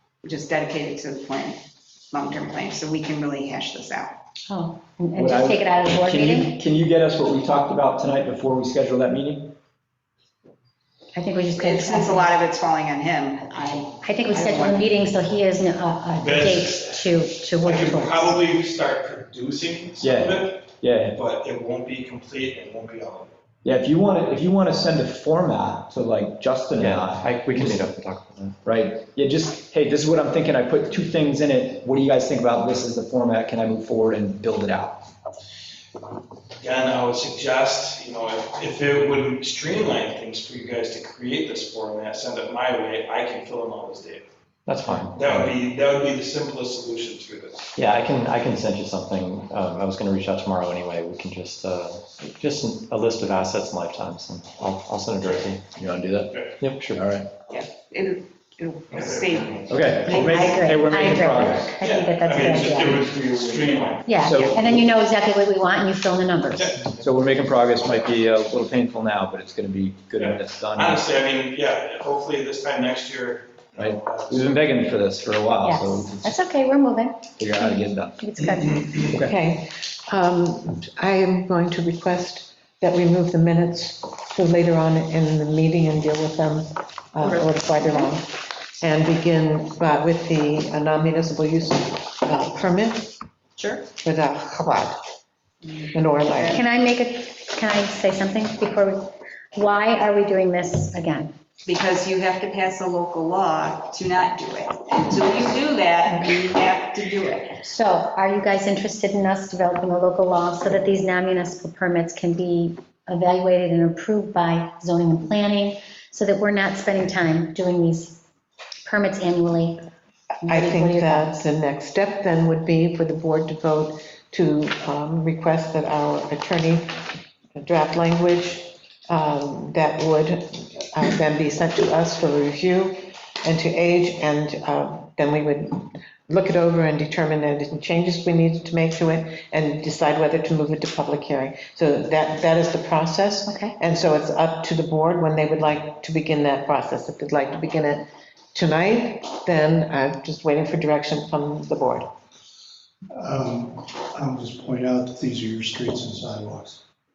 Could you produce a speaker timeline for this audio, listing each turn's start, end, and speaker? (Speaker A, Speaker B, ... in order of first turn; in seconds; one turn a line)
Speaker A: 0.2-1.6
Speaker A: 2.1-4.2
Speaker B: 4.5-6.6
Speaker C: 5.2-9.5
Speaker B: 11.1-12.3
Speaker A: 11.6-14.9
Speaker B: 14.0-18.4
Speaker D: 16.1-17.1
Speaker D: 17.6-23.3
Speaker C: 20.0-21.2
Speaker C: 23.6-27.9
Speaker E: 26.8-28.6
Speaker C: 28.6-35.1
Speaker D: 36.6-44.3
Speaker E: 44.7-45.6
Speaker D: 45.1-47.7
Speaker E: 47.8-55.7
Speaker C: 55.8-56.3
Speaker E: 56.6-57.0
Speaker C: 56.9-57.3
Speaker A: 57.5-59.6
Speaker D: 58.9-59.4
Speaker C: 59.7-61.8
Speaker B: 60.1-63.1
Speaker D: 61.8-64.7
Speaker B: 64.0-66.7
Speaker C: 64.2-64.7
Speaker A: 64.3-64.5
Speaker D: 66.6-67.0
Speaker C: 67.0-71.0
Speaker D: 70.2-74.6
Speaker C: 73.8-76.4
Speaker B: 75.6-78.9
Speaker C: 77.4-78.3
Speaker D: 78.6-79.0
Speaker F: 79.1-88.2
Speaker B: 87.3-88.2
Speaker F: 88.8-93.2
Speaker A: 93.6-93.9
Speaker F: 94.0-95.0
Speaker F: 95.9-96.6
Speaker B: 96.5-101.3
Speaker A: 101.7-107.6
Speaker B: 107.6-118.2
Speaker B: 118.8-119.8
Speaker B: 120.4-121.4
Speaker F: 120.5-152.1
Speaker B: 143.5-143.8
Speaker G: 153.1-156.8